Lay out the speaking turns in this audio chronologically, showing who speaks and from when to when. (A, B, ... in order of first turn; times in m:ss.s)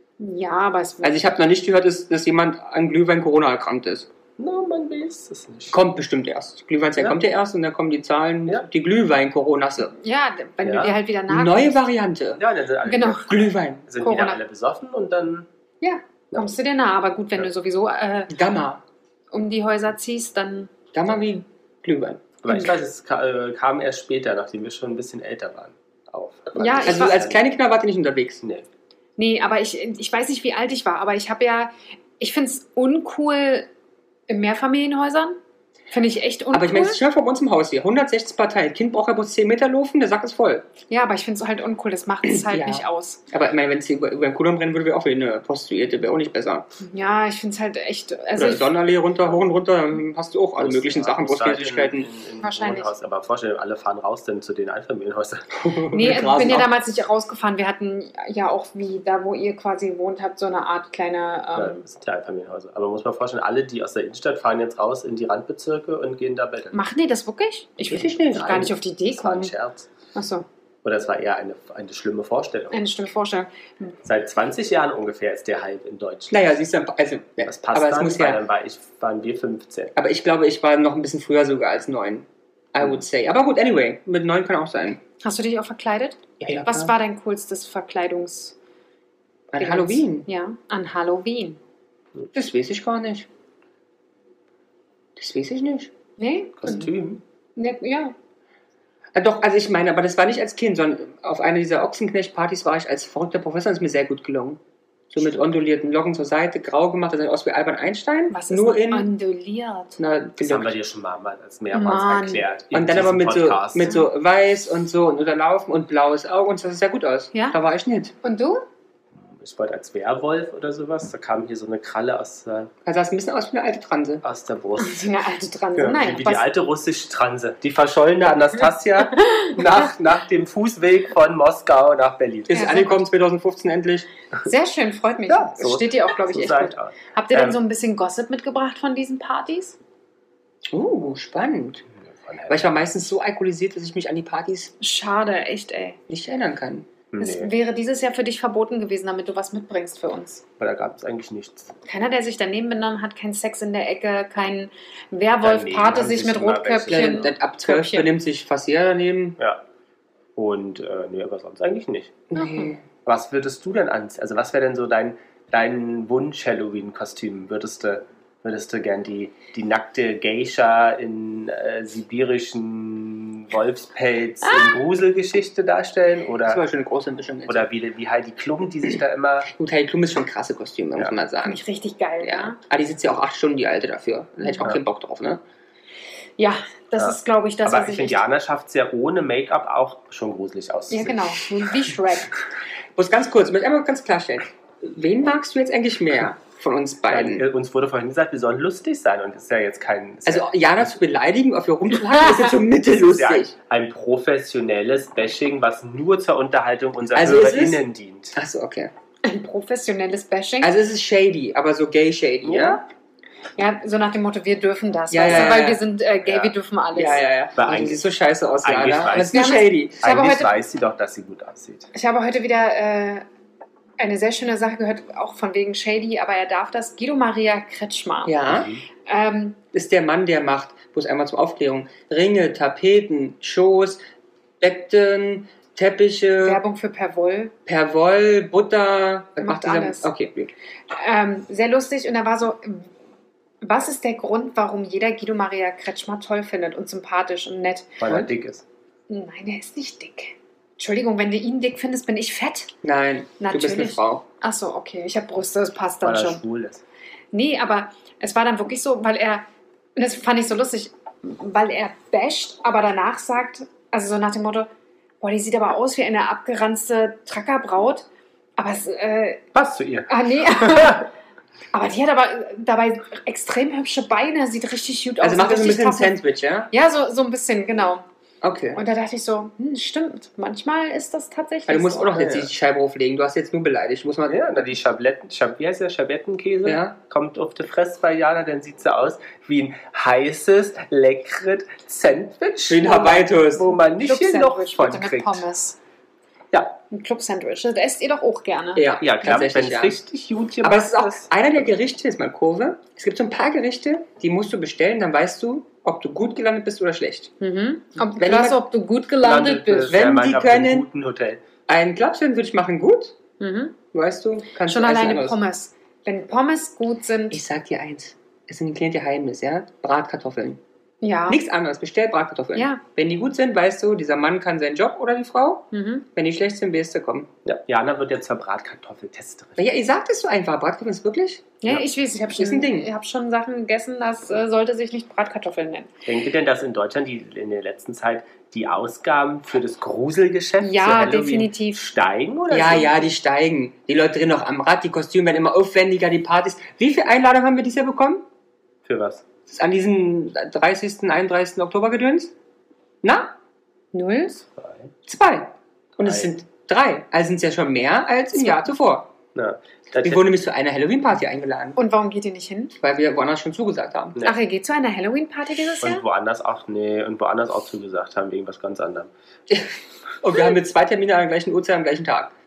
0:00.2-0:01.2 A
0:01.0-0:04.1 B
0:04.4-0:05.8 C
0:05.7-0:10.0 B
0:10.0-0:11.8 A
0:10.6-0:11.0 C
0:11.3-0:12.4 B
0:12.3-0:15.5 C
0:12.9-0:13.3 A
0:13.2-0:13.8 B
0:14.0-0:14.4 A
0:15.8-0:18.3 A
0:18.3-0:18.8 B
0:19.3-0:20.7 A
0:20.9-0:22.4 B
0:22.4-0:27.5 C
0:26.6-0:27.2 A
0:26.8-0:28.4 B
0:28.4-0:28.7 C
0:29.2-0:33.7 A
0:34.3-0:35.4 A
0:35.9-0:37.0 A
0:36.5-0:40.7 B
0:40.9-0:43.2 A
0:42.3-0:46.7 B
0:46.8-0:48.7 A
0:48.4-0:52.1 B
0:50.6-0:55.5 C
0:52.4-0:52.9 A
0:55.5-0:56.7 B
0:55.9-1:01.8 A
1:01.6-1:06.8 C
1:06.7-1:09.5 A
1:07.9-1:08.7 B
1:09.1-1:09.9 C
1:10.2-1:10.5 A
1:10.8-1:12.9 C
1:12.7-1:13.9 A
1:14.0-1:16.5 C
1:16.3-1:18.4 B
1:17.4-1:19.9 C
1:20.0-1:25.0 B
1:25.2-1:28.6 A
1:26.4-1:26.9 B
1:29.5-1:30.3 B
1:29.6-1:31.6 A
1:32.3-1:33.3 B
1:35.2-1:35.9 B
1:36.2-1:36.9 A
1:36.6-1:37.2 C
1:37.6-1:38.2 A
1:39.2-1:44.6 B
1:45.1-1:49.1 B
1:48.3-1:50.0 A
1:50.0-1:50.7 B
1:50.4-1:53.9 C
1:51.7-1:52.5 A
1:52.7-1:58.1 B
1:57.3-1:57.6 A
1:58.2-1:58.6 A
1:59.2-2:02.7 C
2:02.9-2:04.2 B
2:04.2-2:05.1 C
2:04.8-2:06.5 A
2:05.8-2:12.7 C
2:09.1-2:09.6 A
2:12.5-2:14.1 B
2:12.5-2:13.0 A
2:14.4-2:19.8 A
2:15.3-2:17.6 C
2:20.7-2:21.9 B
2:22.1-2:22.9 C
2:22.5-2:24.7 B
2:24.8-2:26.0 A
2:26.1-2:26.9 B
2:27.1-2:27.5 C
2:27.2-2:30.4 A
2:30.6-2:31.7 C
2:31.8-2:38.1 A
2:35.4-2:37.3 C
2:36.9-2:39.4 B
2:40.4-2:42.3 C
2:42.3-2:42.7 A
2:42.3-2:42.8 B
2:43.0-2:56.6 C
2:54.4-2:54.7 A
2:56.5-2:57.7 B
2:57.5-2:59.5 C
2:59.5-3:01.6 B
3:01.4-3:02.6 A
3:02.2-3:05.4 B
3:04.4-3:04.7 A
3:06.4-3:08.2 A
3:07.0-3:11.4 C
3:10.9-3:12.4 A
3:13.0-3:17.4 B
3:17.1-3:20.8 C
3:20.3-3:23.5 B
3:22.9-3:28.4 C
3:27.1-3:27.8 B
3:28.4-3:28.9 B
3:29.2-3:30.7 A
3:30.6-3:32.8 B
3:32.4-3:32.8 C
3:33.6-3:37.2 A
3:35.1-3:35.8 B
3:36.2-3:38.1 C
3:37.0-3:40.0 B
3:38.6-3:41.9 C
3:39.2-3:40.5 A
3:41.9-3:43.2 A
3:44.0-3:48.3 A
3:48.3-3:48.7 B
3:48.5-3:48.8 C
3:49.0-3:49.6 A
3:49.7-3:54.0 B
3:54.6-3:56.6 B
3:56.4-3:57.5 A
3:57.7-4:00.5 B
3:59.4-4:00.1 A
4:00.9-4:02.9 A
4:03.6-4:08.0 A
4:08.0-4:08.6 C
4:09.1-4:12.7 A
4:12.8-4:14.2 B
4:13.4-4:16.4 A
4:16.0-4:16.8 C
4:17.3-4:24.7 A
4:25.2-4:29.4 A
4:29.5-4:31.1 C
4:30.1-4:31.1 A
4:31.7-4:36.2 A
4:35.2-4:36.7 B
4:36.7-4:38.0 A
4:38.4-4:38.8 B
4:38.8-4:42.2 A
4:41.7-4:44.5 B
4:42.2-4:42.5 C
4:44.3-4:55.4 C
4:46.6-4:47.0 B
4:52.7-4:53.7 B
4:54.0-4:55.8 A
4:56.5-4:56.8 C
4:56.9-4:58.8 A
4:58.8-5:00.0 B
4:59.0-5:01.3 C
5:00.6-5:07.3 B
5:07.4-5:10.0 A
5:08.2-5:08.6 B
5:09.2-5:11.4 C
5:09.9-5:10.9 B
5:11.7-5:13.2 B
5:13.4-5:13.8 A
5:13.9-5:15.4 B
5:14.7-5:17.4 A
5:17.3-5:20.6 B
5:21.0-5:21.4 A
5:21.3-5:27.3 B
5:22.6-5:22.8 A
5:25.7-5:26.0 A
5:27.4-5:29.6 C
5:29.6-5:31.6 B
5:31.6-5:35.9 A
5:32.3-5:32.9 B
5:36.1-5:43.1 C
5:40.6-5:41.8 A
5:42.5-5:48.2 B
5:48.8-5:49.3 C
5:49.5-5:52.3 B
5:53.0-5:53.3 B
5:53.9-5:54.4 A
5:54.5-5:54.9 C
5:55.1-5:59.1 B
5:56.0-5:56.3 C
5:58.4-5:58.7 A
5:59.4-6:00.3 C
6:00.0-6:01.8 B
6:01.8-6:02.7 A
6:02.8-6:04.2 B
6:04.2-6:06.0 A
6:05.8-6:09.1 C
6:09.5-6:12.3 B